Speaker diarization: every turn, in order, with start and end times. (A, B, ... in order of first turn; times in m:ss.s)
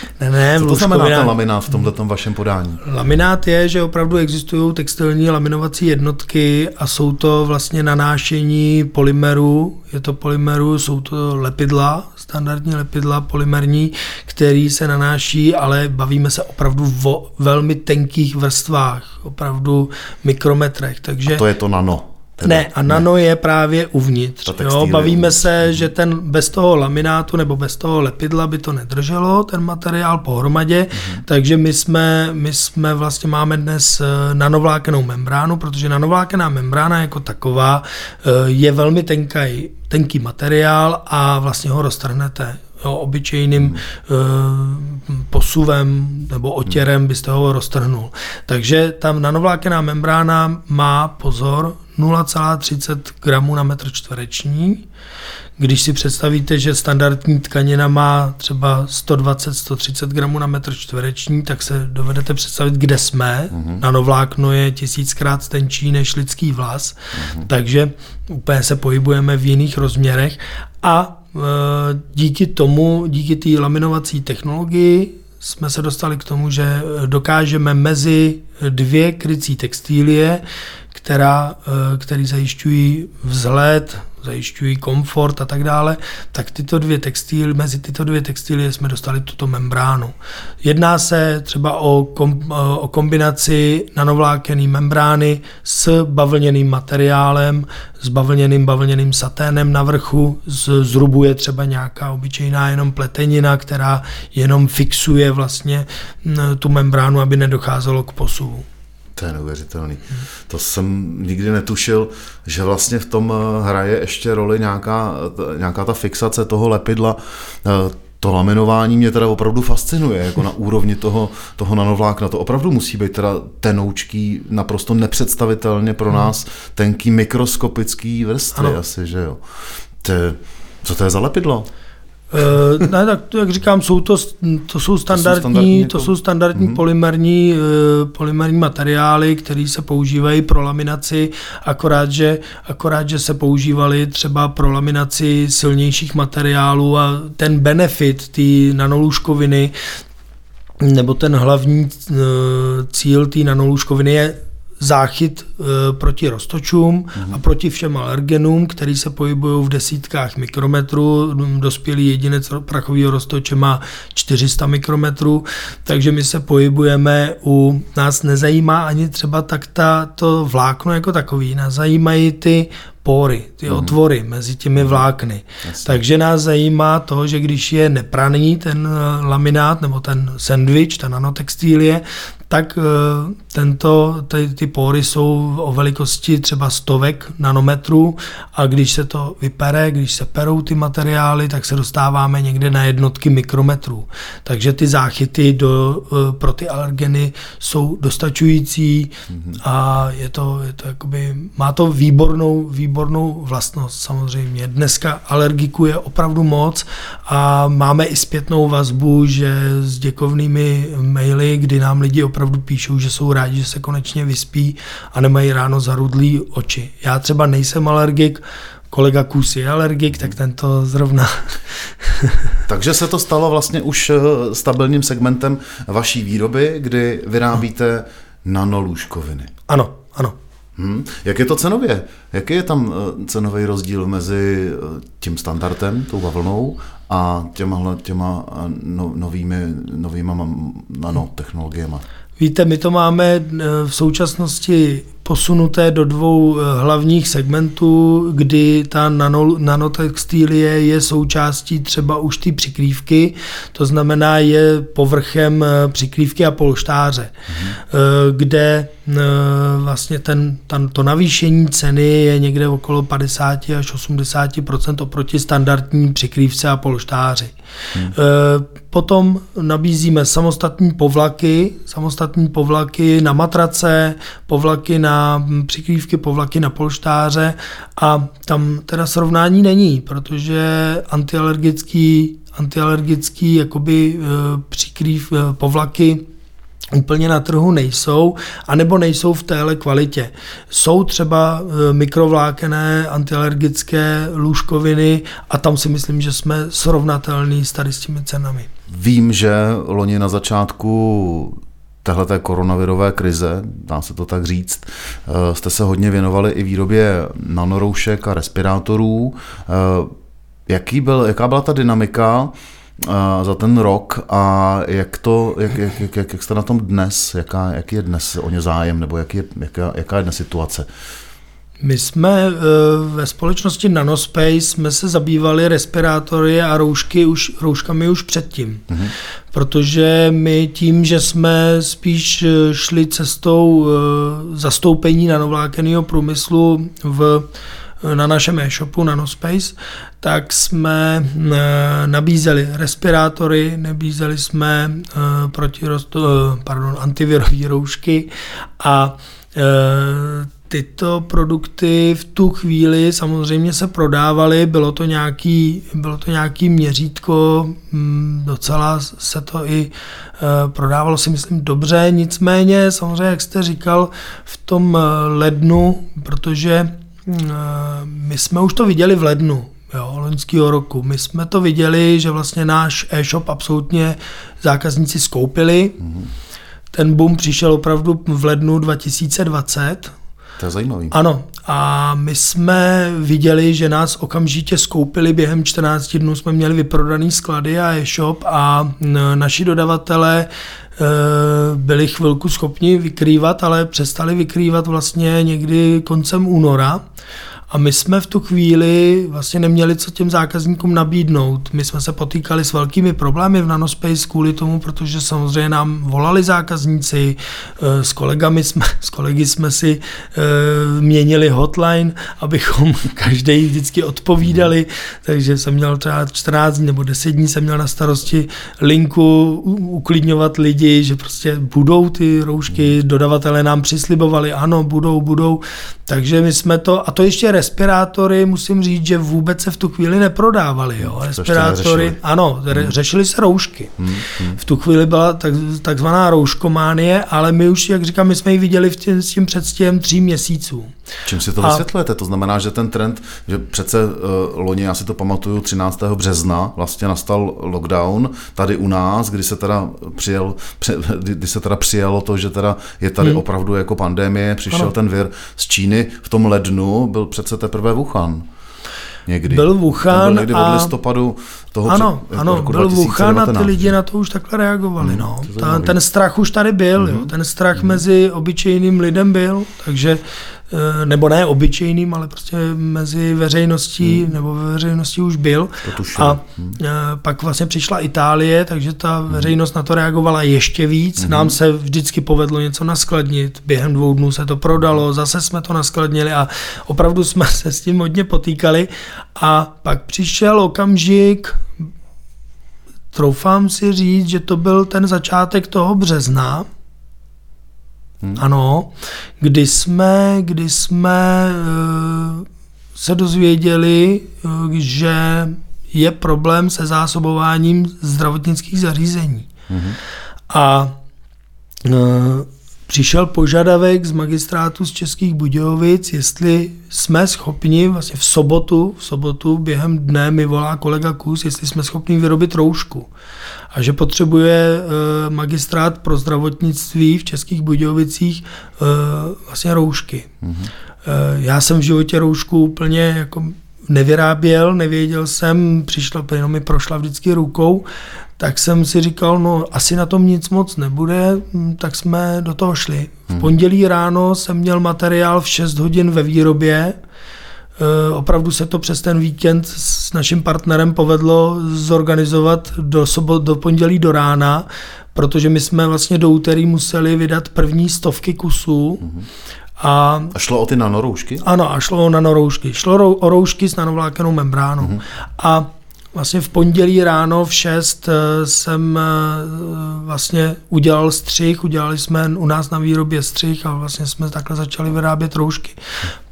0:00.2-0:01.4 A
0:00.6-0:02.8 B
0:02.8-0:21.4 A
0:21.3-0:23.0 B
0:22.4-0:54.8 A
0:24.4-0:25.9 B
0:31.0-0:31.2 B
0:43.6-0:43.8 B
0:55.6-1:48.6 A
1:03.5-1:03.8 B
1:07.1-1:07.5 B
1:49.2-2:09.4 B
2:10.0-2:11.7 B
2:12.3-2:29.7 A
2:15.1-2:16.8 B
2:30.8-3:42.6 A
2:53.7-2:54.0 B
2:55.6-2:56.0 B
3:19.3-3:19.6 B
3:42.7-3:49.5 B
3:49.7-3:50.4 A
3:50.8-4:02.0 B
4:02.4-4:27.5 A
4:17.5-4:17.8 B
4:28.1-4:46.2 A
4:46.9-4:58.7 A
4:58.9-5:10.1 B
5:10.7-5:20.9 B
5:21.8-5:28.8 A
5:28.9-5:29.1 B
5:29.5-5:37.5 A
5:38.0-5:48.3 A
5:48.8-6:16.0 A
6:16.0-6:16.3 B
6:16.9-6:20.1 A
6:20.6-6:21.2 B
6:21.1-6:37.0 A
6:37.7-7:14.0 A
7:11.0-7:12.2 B
7:14.0-7:14.6 B
7:14.6-7:20.9 A
7:21.2-7:38.5 B
7:39.3-7:43.9 B
7:39.5-7:40.9 A
7:41.9-8:11.6 A
7:45.0-7:46.0 B
7:47.0-7:48.0 B
7:54.0-7:54.3 B
7:55.8-7:56.8 B
8:01.2-8:01.6 B
8:13.1-8:16.7 A
8:18.4-8:29.5 A
8:29.7-8:30.0 B
8:30.5-8:30.9 A
8:31.8-8:43.1 A
8:43.7-8:50.3 A
8:50.4-8:50.7 B
8:51.0-8:57.9 A
8:58.4-9:07.0 A
9:07.8-9:19.1 A
9:19.8-9:20.3 A
9:20.3-9:21.4 B
9:21.4-9:35.8 A